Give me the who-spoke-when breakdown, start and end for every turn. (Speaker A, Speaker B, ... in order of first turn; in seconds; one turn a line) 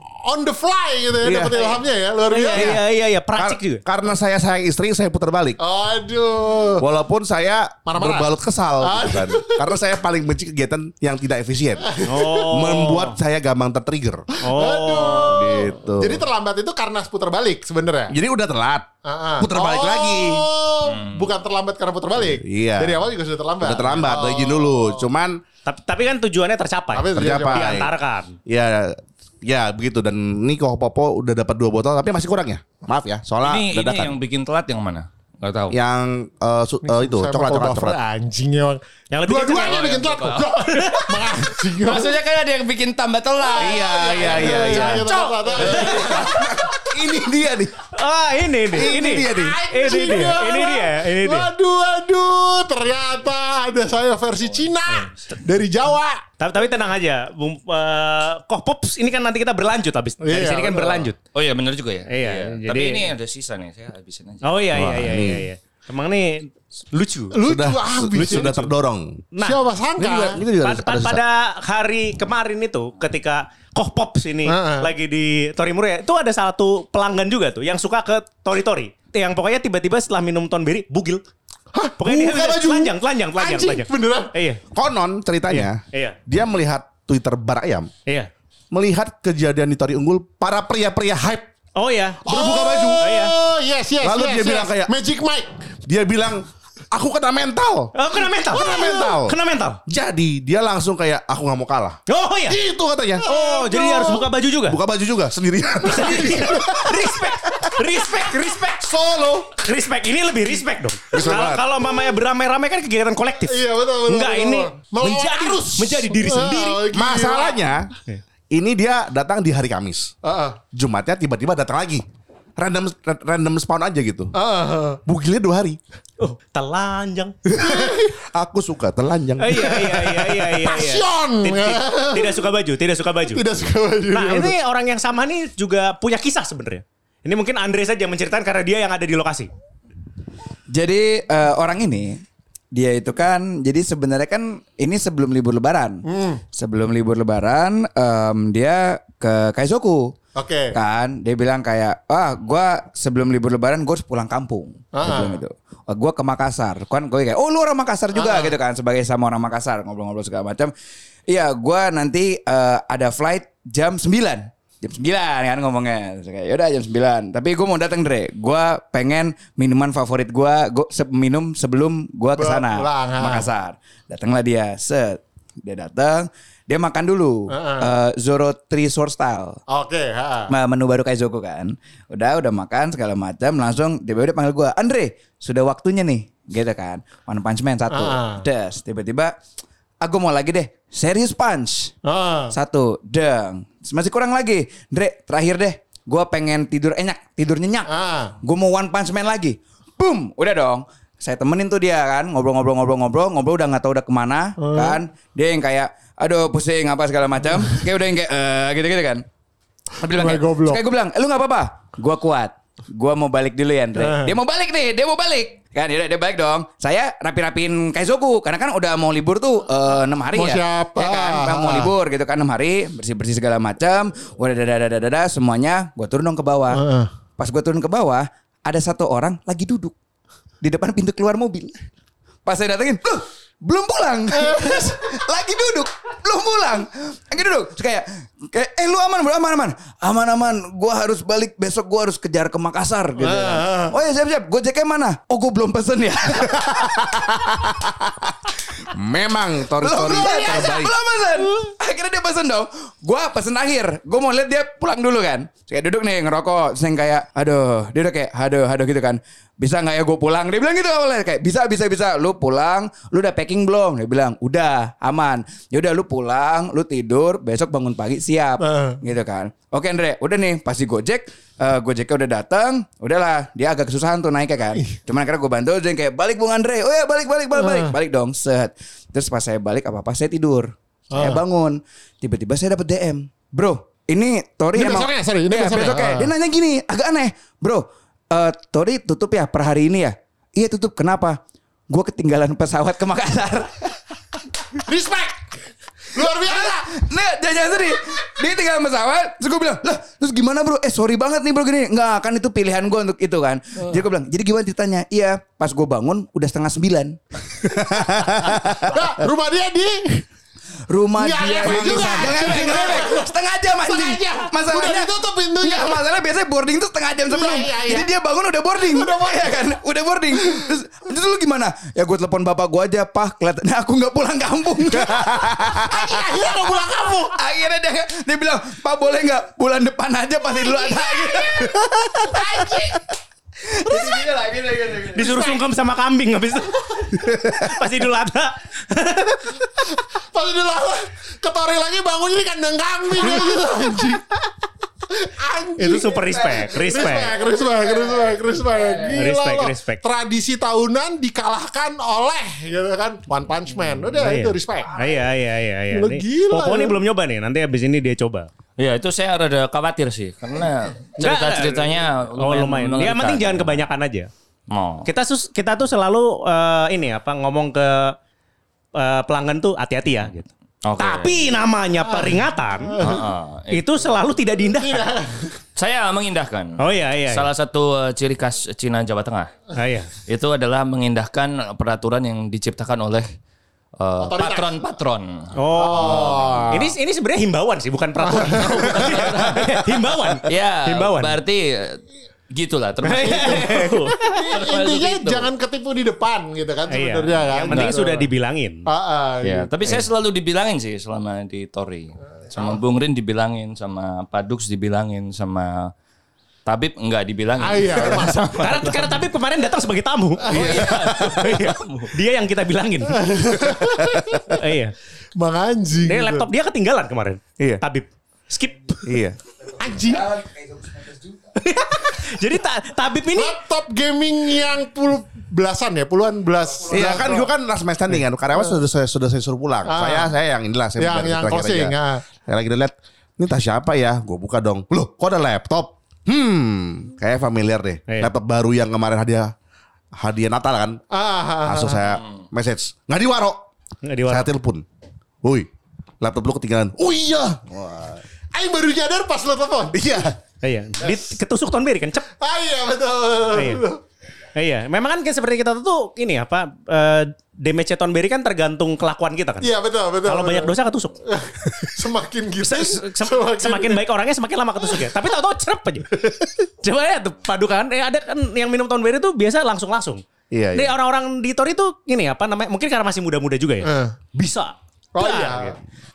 Speaker A: 0.2-2.8
Speaker B: 1.2-1.6
Speaker C: 2.3-3.8
Speaker B: 2.5-2.8
Speaker B: 3.3-5.6
Speaker A: 5.6-6.8
Speaker B: 6.8-14.2
Speaker A: 7.8-8.3
Speaker A: 8.8-9.8
Speaker A: 11.8-12.5
Speaker C: 12.1-13.2
Speaker C: 14.4-15.4
Speaker A: 14.5-18.1
Speaker B: 15.2-16.2
Speaker B: 18.1-18.9
Speaker A: 19.0-25.0
Speaker B: 19.4-20.5
Speaker D: 20.9-21.3
Speaker B: 22.2-23.0
Speaker B: 23.6-25.4
Speaker C: 25.6-28.3
Speaker A: 26.9-27.8
Speaker B: 27.1-27.9
Speaker B: 28.5-34.1
Speaker D: 33.4-35.8
Speaker B: 35.7-38.0
Speaker A: 36.8-42.2
Speaker C: 39.1-39.9
Speaker D: 39.5-40.5
Speaker C: 40.8-41.1
Speaker D: 41.8-46.5
Speaker A: 43.5-46.7
Speaker B: 43.6-45.0
Speaker B: 45.6-47.8
Speaker C: 48.0-51.5
Speaker B: 48.7-49.6
Speaker A: 48.9-56.2
Speaker C: 56.4-61.2
Speaker A: 60.2-61.1
Speaker D: 61.3-64.8
Speaker C: 62.1-63.1
Speaker C: 64.4-67.4
Speaker B: 64.7-65.5
Speaker A: 67.3-68.5
Speaker B: 67.4-69.2
Speaker C: 69.3-81.2
Speaker A: 69.4-70.4
Speaker B: 70.3-71.2
Speaker A: 74.4-74.9
Speaker A: 81.7-84.3
Speaker C: 82.0-84.6
Speaker B: 84.7-87.9
Speaker C: 85.5-86.2
Speaker B: 88.7-91.5
Speaker C: 91.8-92.4
Speaker A: 92.2-95.7
Speaker B: 92.3-93.1
Speaker C: 93.0-93.3
Speaker B: 94.0-94.9
Speaker B: 95.8-97.9
Speaker C: 97.9-99.8
Speaker B: 98.5-99.3
Speaker A: 98.6-99.1
Speaker B: 99.9-103.2
Speaker C: 102.1-102.6
Speaker A: 103.2-104.3
Speaker C: 103.2-104.8
Speaker B: 104.6-106.7
Speaker C: 105.9-108.9
Speaker A: 105.9-107.1
Speaker A: 108.7-109.5
Speaker C: 109.6-116.9
Speaker B: 111.1-111.7
Speaker A: 113.5-117.7
Speaker B: 116.9-117.9
Speaker B: 118.5-120.1
Speaker A: 120.2-120.6
Speaker B: 120.7-122.0
Speaker B: 122.6-124.3
Speaker A: 124.3-125.0
Speaker B: 125.0-125.8
Speaker C: 126.2-127.3
Speaker B: 127.5-129.8
Speaker A: 127.6-128.1
Speaker C: 129.4-133.4
Speaker A: 129.5-132.3
Speaker A: 133.3-134.5
Speaker C: 134.1-139.5
Speaker E: 140.7-150.1
Speaker A: 146.1-146.4
Speaker A: 150.3-150.7
Speaker E: 150.7-160.7
Speaker A: 154.9-155.4
Speaker A: 158.1-158.5
Speaker E: 161.3-179.6
Speaker A: 172.3-173.5
Speaker A: 177.5-177.9
Speaker A: 179.7-180.5
Speaker E: 180.5-189.3
Speaker A: 187.9-188.4
Speaker E: 190.0-191.9
Speaker A: 192.0-192.5
Speaker E: 192.5-197.9
Speaker A: 197.9-198.3
Speaker E: 198.4-209.2
Speaker A: 204.6-205.0
Speaker E: 210.0-226.8
Speaker A: 210.0-210.8
Speaker A: 213.9-214.3
Speaker A: 220.3-221.9
Speaker A: 226.7-227.1
Speaker E: 227.4-229.9
Speaker E: 230.6-231.8
Speaker E: 232.4-248.9
Speaker A: 234.3-235.2
Speaker A: 243.2-243.9
Speaker B: 248.9-250.9
Speaker E: 249.8-294.0
Speaker A: 250.1-250.7
Speaker A: 268.6-269.0
Speaker A: 277.6-277.9
Speaker A: 281.1-281.4
Speaker A: 284.7-286.3
Speaker A: 294.8-297.0
Speaker E: 296.2-308.8
Speaker B: 307.8-308.5
Speaker A: 308.7-310.2
Speaker E: 310.9-326.7
Speaker A: 311.2-316.1
Speaker B: 311.6-312.6
Speaker A: 317.3-318.1
Speaker A: 318.9-319.5
Speaker A: 325.6-327.4
Speaker E: 327.3-333.0
Speaker A: 330.5-333.0
Speaker E: 333.6-335.3
Speaker A: 333.9-334.2
Speaker C: 335.0-339.7
Speaker A: 335.0-335.6
Speaker B: 337.3-337.6
Speaker A: 339.8-344.4
Speaker A: 345.1-354.9
Speaker C: 345.8-347.4
Speaker C: 349.1-350.0
Speaker C: 354.1-358.5
Speaker A: 355.9-357.0
Speaker D: 358.8-363.8
Speaker C: 361.2-364.3
Speaker D: 364.7-365.1
Speaker C: 365.0-368.1
Speaker C: 368.9-375.1
Speaker D: 370.8-371.4
Speaker A: 372.0-373.2
Speaker D: 373.0-374.1
Speaker A: 374.8-375.6
Speaker D: 375.8-379.6
Speaker C: 376.8-377.4
Speaker C: 379.7-380.1
Speaker D: 380.3-383.3
Speaker D: 384.0-386.6
Speaker A: 384.2-384.8
Speaker C: 385.6-391.4
Speaker A: 385.7-386.9
Speaker A: 388.2-389.1
Speaker D: 388.6-389.8
Speaker D: 390.4-395.5
Speaker C: 393.0-394.5
Speaker A: 394.3-398.3
Speaker C: 396.9-398.9
Speaker D: 397.6-397.9
Speaker A: 398.9-400.0
Speaker D: 399.4-405.9
Speaker D: 406.6-409.0
Speaker A: 407.6-409.0
Speaker C: 408.1-410.7
Speaker D: 410.4-412.1
Speaker B: 410.6-411.6
Speaker C: 411.3-413.3
Speaker A: 413.1-414.6
Speaker B: 413.6-414.6
Speaker C: 414.6-414.9
Speaker A: 415.4-416.5
Speaker C: 416.0-419.2
Speaker B: 419.0-419.4
Speaker A: 419.8-420.4
Speaker E: 420.4-421.1
Speaker C: 421.5-423.6
Speaker A: 423.3-427.5
Speaker B: 426.9-439.5
Speaker A: 429.9-430.3
Speaker A: 431.0-432.2
Speaker B: 440.1-441.0
Speaker A: 441.1-442.1
Speaker B: 441.6-443.6
Speaker C: 444.1-444.5
Speaker B: 444.2-444.8
Speaker B: 445.4-445.7
Speaker B: 446.2-448.2
Speaker A: 448.5-450.2
Speaker B: 449.9-450.3
Speaker C: 450.6-452.2
Speaker A: 452.4-454.0
Speaker C: 453.5-453.8
Speaker C: 454.6-459.7
Speaker A: 459.6-460.7
Speaker C: 460.2-461.2
Speaker A: 461.2-464.1
Speaker C: 462.6-470.2
Speaker B: 470.5-470.9
Speaker C: 470.7-475.8
Speaker A: 473.8-474.2
Speaker A: 475.1-475.8